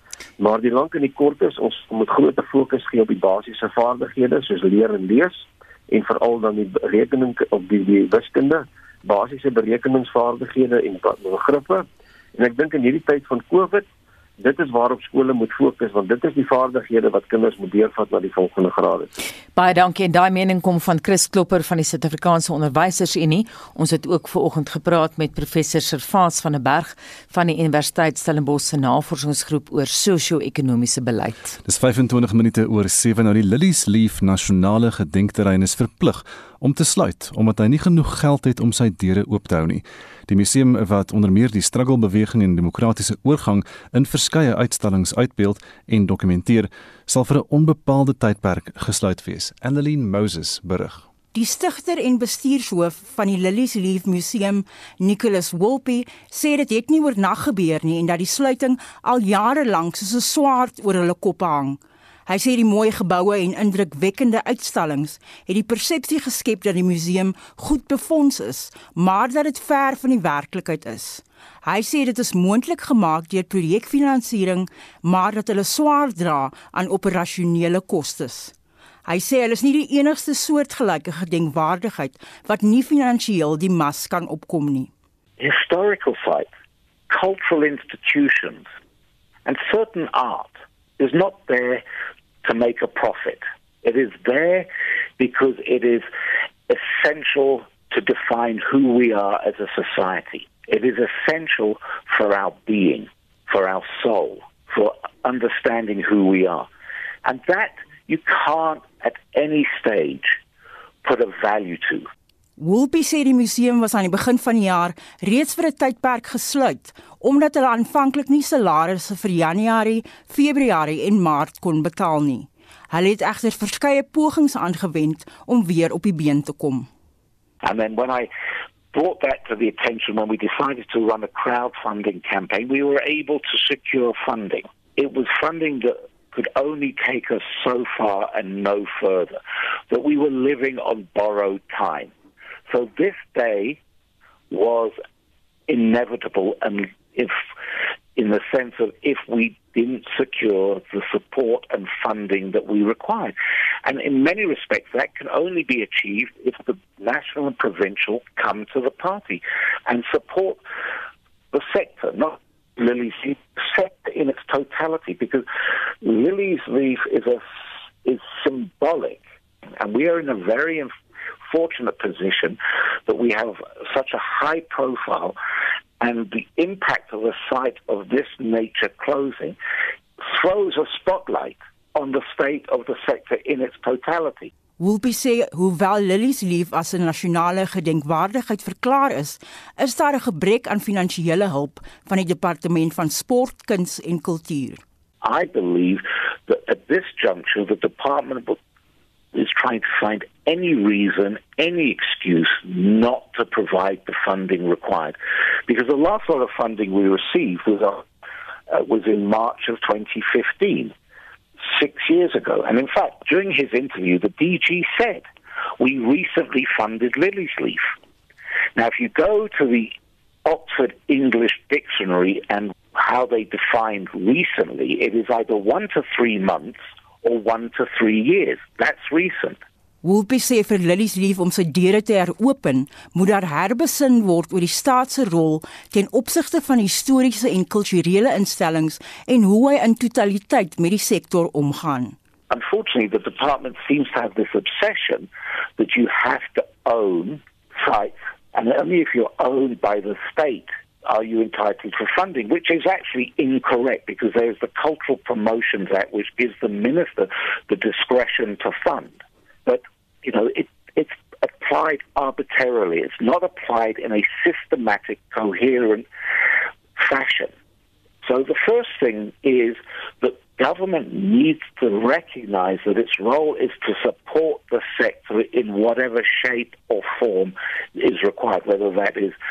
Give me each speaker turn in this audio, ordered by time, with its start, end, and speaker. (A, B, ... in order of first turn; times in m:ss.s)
0:00.4-0:13.9 A
0:14.4-0:19.1 A
0:19.6-0:31.6 B
0:31.6-0:51.1 C
0:51.3-1:18.5 D
1:19.1-1:24.9 D
1:25.4-1:26.5 E
1:27.1-1:28.7 E
1:29.4-1:31.8 E
1:32.4-1:34.7 E
1:35.2-1:36.1 E
1:36.7-1:46.7 E
1:47.2-1:50.4 E
1:51.0-1:52.1 E
1:52.6-2:06.9 D
2:07.6-2:08.3 E
2:08.9-2:22.1 E
2:22.7-2:23.8 E
2:24.5-2:25.0 E
2:25.7-2:27.4 E
2:28.2-2:40.6 E
2:41.5-2:45.5 E
2:46.0-2:47.4 E
2:48.0-2:49.2 E
2:49.8-2:50.9 E
2:51.5-2:55.4 E
2:56.0-2:59.6 E
3:00.2-3:04.5 E
3:04.8-3:14.8 D
3:15.2-3:18.6 E
3:19.3-3:25.2 E
3:25.7-3:28.0 E
3:28.7-3:30.9 E
3:31.7-3:35.2 E
3:35.8-3:37.9 E
3:38.8-3:39.9 E
3:40.4-3:49.6 E
3:50.0-4:02.2 D
4:02.5-4:26.0 E
4:27.0-4:27.5 E
4:28.2-4:39.4 E